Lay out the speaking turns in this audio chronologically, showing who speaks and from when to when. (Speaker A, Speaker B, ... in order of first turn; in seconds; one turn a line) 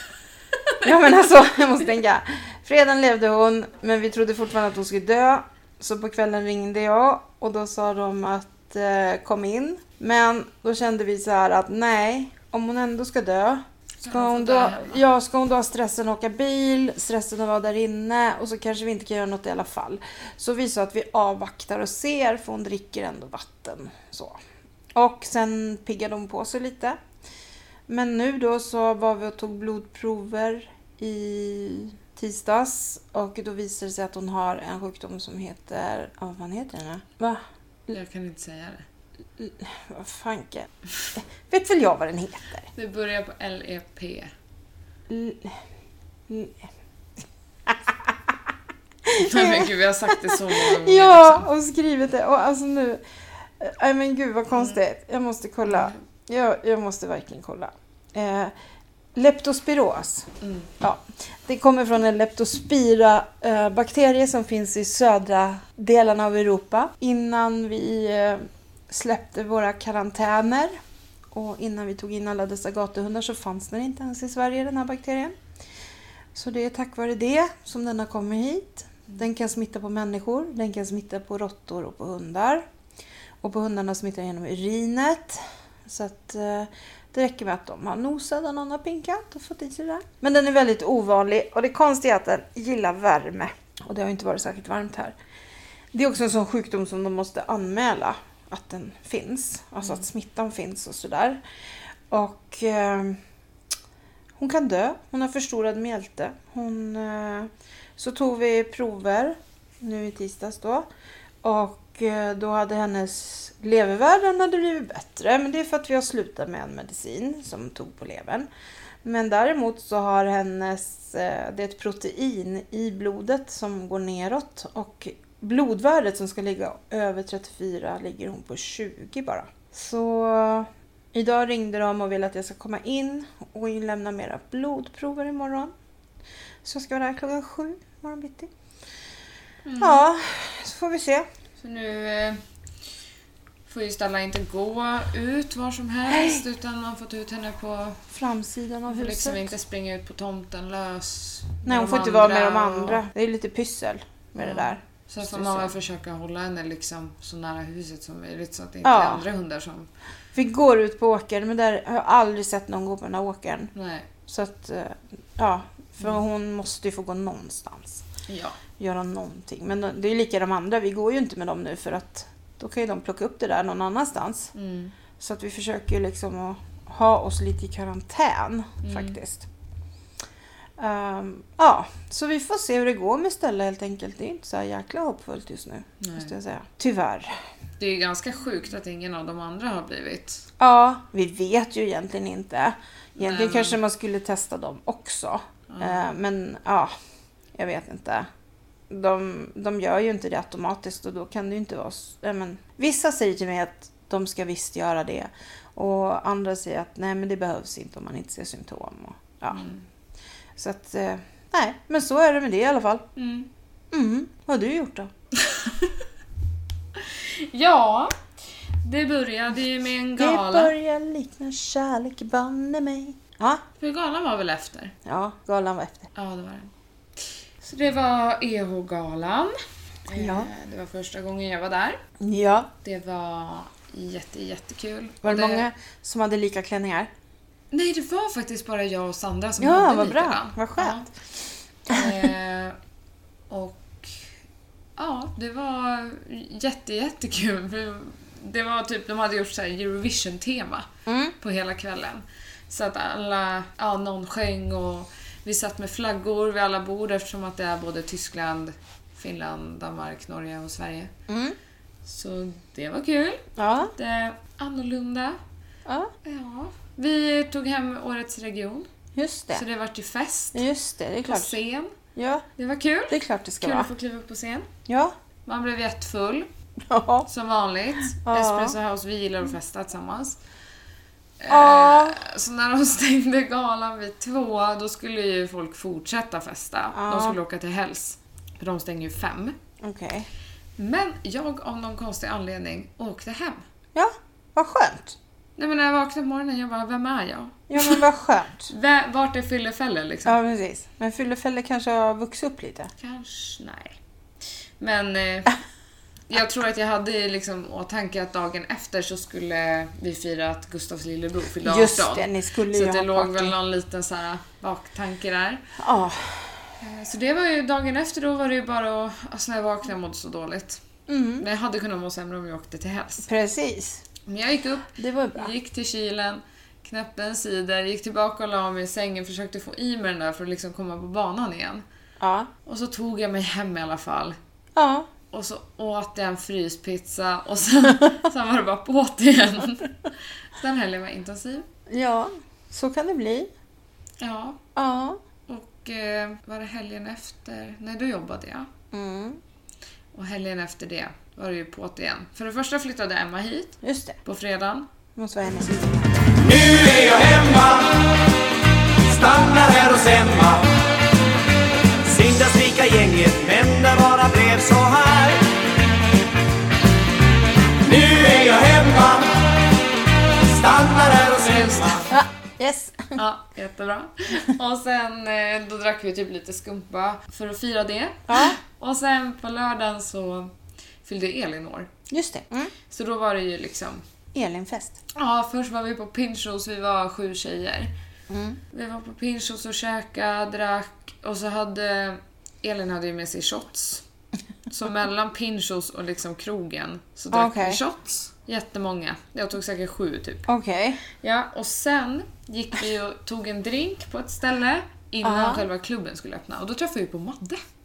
Speaker A: 0.8-24.4
Speaker B: 14.0-15.0
Speaker A: 24.9-27.0
Speaker A: 27.9-37.4
Speaker B: 37.9-38.9
Speaker A: 39.4-42.7
Speaker B: 42.8-44.3
Speaker A: 45.1-45.6
Speaker A: 46.3-46.6
Speaker A: 47.7-48.1
Speaker A: 49.1-53.0
Speaker B: 49.1-51.5
Speaker A: 53.6-58.5
Speaker B: 55.7-56.0
Speaker A: 59.1-60.3
Speaker B: 60.4-60.7
Speaker A: 60.8-70.8
Speaker A: 71.3-75.3
Speaker A: 76.3-82.7
Speaker A: 83.4-95.2
Speaker A: 95.9-101.4
Speaker A: 102.1-103.2
Speaker A: 104.4-110.9
Speaker A: 111.4-118.5
Speaker A: 119.0-135.7
Speaker A: 136.6-138.5
Speaker B: 139.7-140.1
Speaker A: 139.8-141.3
Speaker B: 141.6-142.4
Speaker B: 143.7-148.0
Speaker A: 146.1-146.4
Speaker A: 148.1-149.5
Speaker B: 148.9-153.0
Speaker A: 151.7-155.8
Speaker B: 154.4-159.9
Speaker A: 158.8-159.3
Speaker A: 160.3-163.7
Speaker B: 163.7-164.1
Speaker A: 164.3-168.0
Speaker B: 168.3-168.6
Speaker A: 168.8-174.5
Speaker B: 174.5-174.9
Speaker A: 175.2-179.5
Speaker B: 178.8-179.2
Speaker A: 180.8-187.3
Speaker B: 186.0-186.3
Speaker B: 187.8-190.4
Speaker A: 190.6-196.9
Speaker B: 193.2-193.8
Speaker B: 195.7-196.0
Speaker A: 197.6-198.3
Speaker A: 198.9-209.6
Speaker B: 209.5-209.8
Speaker A: 210.6-213.1
Speaker B: 213.2-213.5
Speaker A: 213.9-215.1
Speaker B: 215.4-215.9
Speaker B: 217.0-218.2
Speaker B: 218.8-220.7
Speaker A: 220.2-223.6
Speaker B: 223.8-224.9
Speaker A: 225.1-226.1
Speaker B: 226.2-226.7
Speaker B: 227.6-232.0
Speaker A: 230.1-230.5
Speaker A: 232.2-232.7
Speaker B: 232.8-235.7
Speaker A: 235.2-237.1
Speaker B: 237.7-241.1
Speaker A: 239.6-241.1
Speaker A: 241.9-242.1
Speaker B: 241.9-242.8
Speaker B: 243.5-244.1
Speaker B: 245.0-261.1
Speaker A: 251.1-251.3
Speaker A: 261.3-261.6
Speaker B: 262.1-265.4
Speaker A: 263.6-263.9
Speaker A: 265.9-266.1
Speaker B: 266.2-268.9
Speaker A: 269.2-269.6
Speaker B: 269.5-270.7
Speaker A: 270.5-271.6
Speaker B: 271.2-271.9
Speaker A: 272.2-272.4
Speaker B: 272.6-274.7
Speaker A: 273.1-273.9
Speaker A: 274.9-275.1
Speaker B: 275.5-276.5
Speaker A: 276.9-277.3
Speaker B: 277.3-280.4
Speaker A: 278.2-278.8
Speaker B: 281.4-289.6
Speaker A: 281.5-282.2
Speaker A: 286.9-287.4
Speaker A: 289.8-290.3
Speaker B: 290.8-293.6
Speaker A: 293.9-295.2
Speaker B: 295.6-298.0
Speaker A: 297.7-298.7
Speaker B: 298.7-300.4
Speaker A: 300.2-302.9
Speaker B: 303.0-304.0
Speaker B: 304.8-305.6
Speaker B: 306.3-315.7
Speaker A: 311.6-313.6
Speaker A: 315.8-316.4
Speaker B: 316.8-320.8
Speaker A: 321.1-321.5
Speaker B: 321.4-323.3
Speaker A: 323.3-324.0
Speaker B: 324.3-331.8
Speaker A: 325.0-325.5
Speaker A: 332.2-332.5
Speaker B: 332.7-334.4
Speaker A: 334.8-335.1
Speaker B: 335.3-339.9
Speaker B: 340.6-341.7
Speaker A: 341.9-343.5
Speaker B: 344.2-344.6
Speaker A: 344.8-345.2
Speaker B: 345.5-348.7
Speaker A: 348.9-349.4
Speaker B: 350.1-354.9
Speaker A: 353.8-354.2
Speaker A: 355.2-356.4
Speaker C: 356.4-358.0
Speaker C: 359.1-360.7
Speaker C: 362.1-365.5
Speaker C: 367.8-369.4
Speaker C: 370.4-372.0
Speaker B: 371.5-372.0
Speaker A: 372.1-373.2
Speaker B: 373.1-381.9
Speaker A: 378.3-378.6
Speaker A: 382.1-382.7
Speaker B: 382.9-384.0
Speaker A: 384.3-385.0
Speaker B: 385.1-387.9
Speaker A: 388.3-388.6
Speaker B: 388.7-394.0
Speaker B: 394.7-400.5
Speaker A: 397.3-397.8
Speaker A: 400.5-401.0
Speaker B: 401.2-407.6
Speaker A: 405.2-405.6